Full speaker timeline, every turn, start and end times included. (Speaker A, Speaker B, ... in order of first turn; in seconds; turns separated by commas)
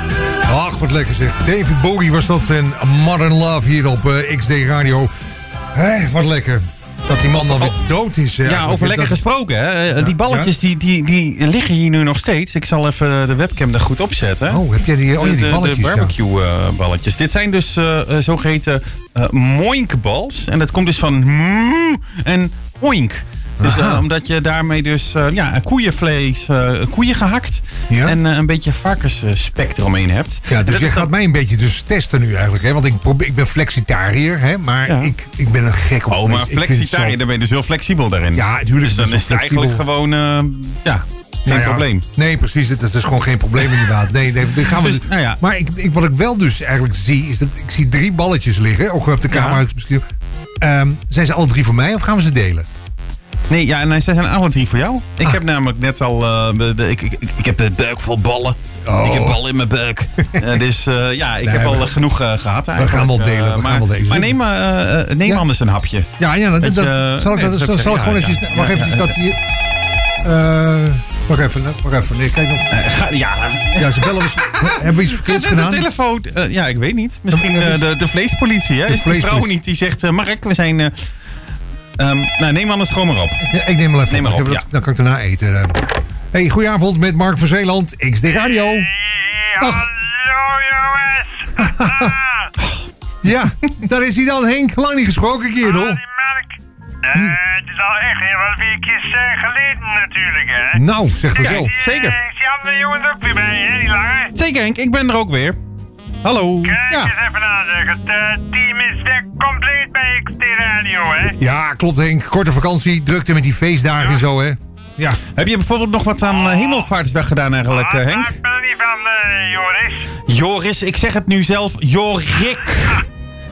Speaker A: 0.5-5.1, Speaker A: 5.7-9.2, Speaker B: 7.4-7.8, Speaker B: 8.4-14.6, Speaker A: 9.9-10.5, Speaker A: 14.5-16.1, Speaker B: 15.2-31.1, Speaker A: 23.6-24.1, Speaker A: 27.9-28.2, Speaker A: 30.5-37.2, Speaker B: 34.9-35.1, Speaker B: 36.1-42.0, Speaker A: 38.3-39.8, Speaker A: 41.5-50.0, Speaker B: 44.6-45.4, Speaker B: 49.3-49.6, Speaker A: 50.6-52.7, Speaker B: 53.5-69.1, Speaker A: 58.8-59.4, Speaker A: 60.3-60.6, Speaker A: 61.4-62.0, Speaker A: 62.8-64.4, Speaker A: 66.2-69.4, Speaker A: 70.2-72.7, Speaker B: 72.7-80.9, Speaker A: 73.8-75.9, Speaker A: 77.3-77.9, Speaker A: 78.9-79.6, Speaker B: 82.0-83.4, Speaker A: 83.4-88.9, Speaker B: 84.1-84.6, Speaker C: 88.3-92.5, Speaker A: 89.6-89.9, Speaker A: 91.6-92.1, Speaker A: 93.2-96.0, Speaker C: 95.6-104.3, Speaker A: 100.7-101.7, Speaker B: 101.3-102.2, Speaker B: 104.3-105.6, Speaker B: 106.2-107.1, Speaker C: 106.6-111.3, Speaker A: 111.4-115.2, Speaker B: 115.3-118.3, Speaker C: 116.4-116.9, Speaker C: 117.7-120.1, Speaker B: 120.3-123.0